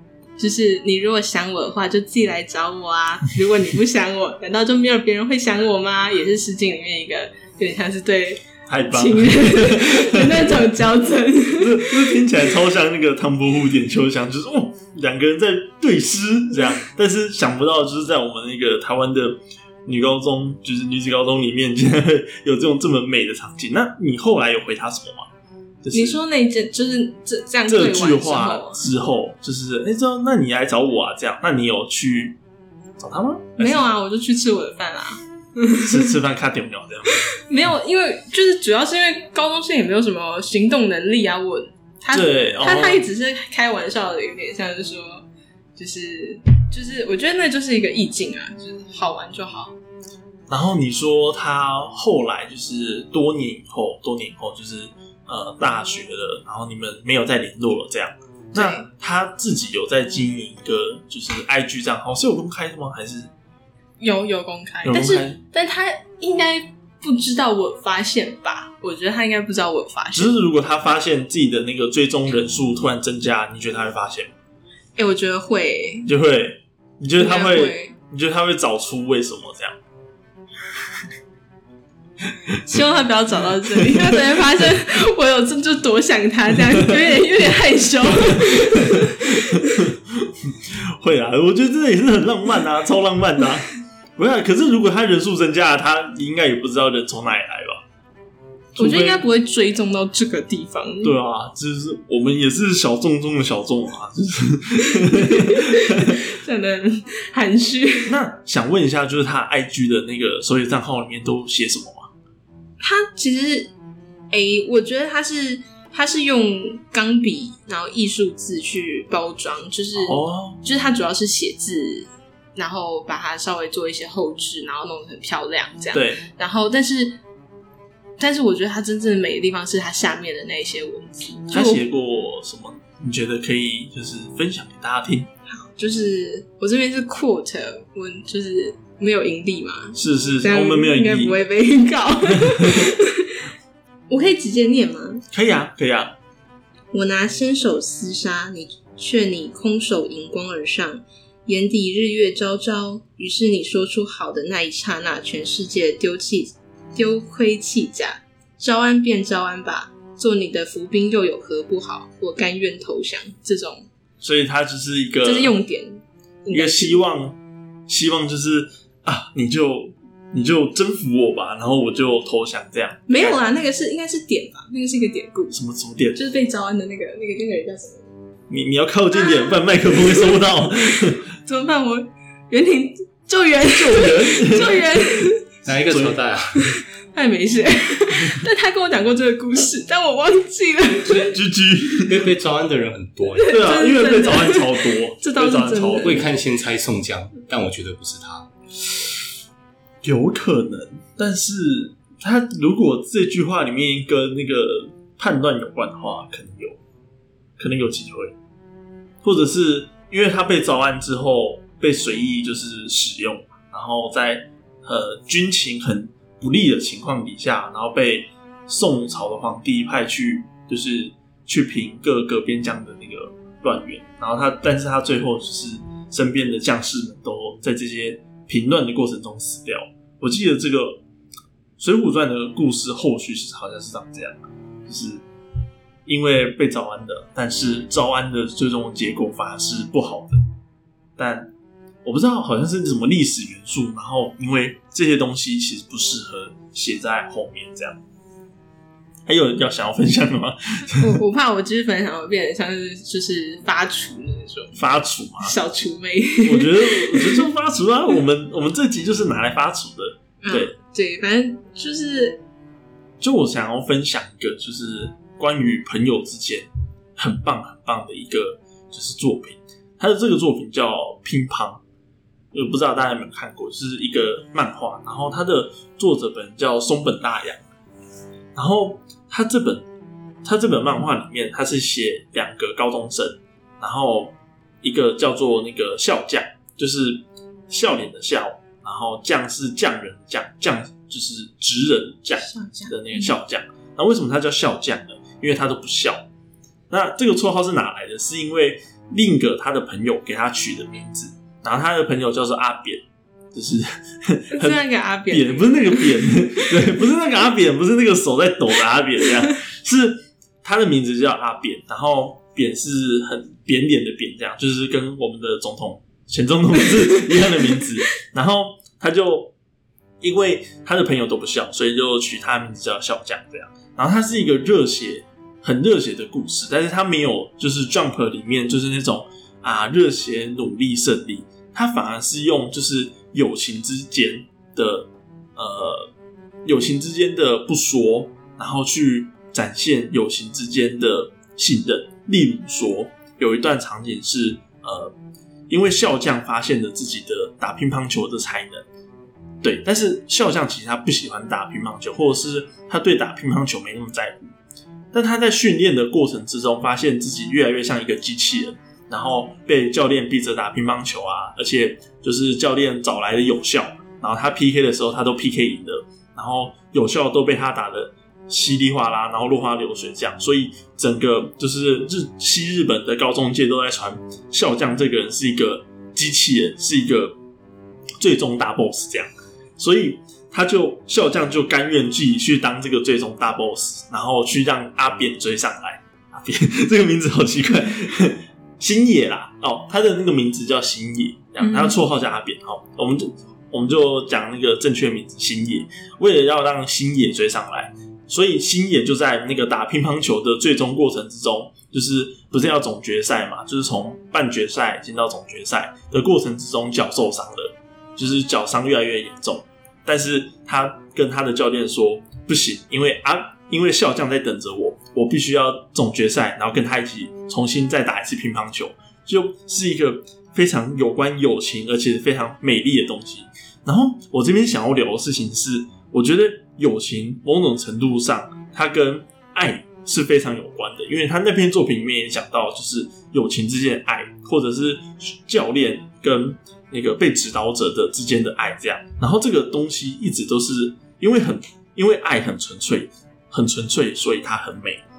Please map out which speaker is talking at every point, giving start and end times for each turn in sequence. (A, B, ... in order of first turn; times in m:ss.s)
0:00.4-0:12.2 A
0:08.6-0:10.7 B
0:11.5-0:25.3 B
0:25.8-0:26.2 B
0:25.9-0:28.8 A
0:27.7-0:32.4 B
0:33.0-0:33.8 B
0:33.6-0:36.1 A
0:35.8-0:37.2 B
0:37.4-0:49.8 A
0:42.1-0:43.1 B
0:50.5-1:03.3 B
0:58.5-0:58.8 A
1:04.0-1:10.4 A
1:04.8-1:05.4 B
1:10.1-1:14.3 B
1:15.0-1:16.1 A
1:16.0-1:19.8 B
1:17.2-1:18.0 A
1:22.6-1:29.8 A
1:23.8-1:24.0 B
1:28.3-1:37.8 B
1:38.7-1:39.2 B
1:38.8-1:41.2 A
1:41.0-1:46.2 B
1:44.9-1:48.2 A
1:48.0-1:52.1 B
1:52.8-1:53.7 A
1:54.3-2:07.2 A
2:00.0-2:00.6 B
2:05.9-2:06.2 B
2:08.2-2:11.8 A
2:11.5-2:15.3 B
2:15.5-2:23.4 A
2:20.0-2:21.4 B
2:22.3-2:22.9 B
2:24.1-2:25.2 A
2:25.3-2:26.1 B
2:26.9-2:43.9 A
2:44.2-2:45.5 B
2:45.2-2:47.0 A
2:46.5-2:53.4 B
2:53.1-2:55.6 A
2:55.5-2:56.2 B
2:56.2-2:58.1 A
2:58.5-3:01.2 B
2:59.1-3:00.8 A
3:01.3-3:05.5 A
3:03.7-3:04.8 B
3:05.6-3:06.8 C
3:05.9-3:06.2 B
3:06.6-3:11.4 A
3:11.1-3:12.2 B
3:12.0-3:13.6 C
3:13.3-3:16.3 A
3:13.5-3:16.2 B
3:16.0-3:18.5 C
3:20.0-3:26.8 B
3:27.6-3:28.3 B
3:29.2-3:51.0 B
3:51.8-3:55.2 B
3:56.0-4:00.4 B
4:01.2-4:01.5 B
4:02.0-4:08.0 B
4:09.3-4:11.2 B
4:11.0-4:14.8 A
4:14.8-4:15.5 B
4:15.4-4:17.4 A
4:16.4-4:20.7 B
4:20.4-4:22.4 A
4:23.2-4:31.8 B
4:32.5-4:37.6 B
4:38.5-4:39.9 B
4:40.4-4:56.2 B
4:52.4-4:53.3 A
4:56.9-5:19.5 B
5:04.5-5:06.9 A
5:17.2-5:17.6 A
5:20.2-5:36.1 B
5:36.6-5:45.1 B
5:45.7-5:48.8 B
5:49.6-5:54.5 B
5:55.1-6:17.4 B
6:18.2-7:25.0 B
6:31.6-6:32.0 A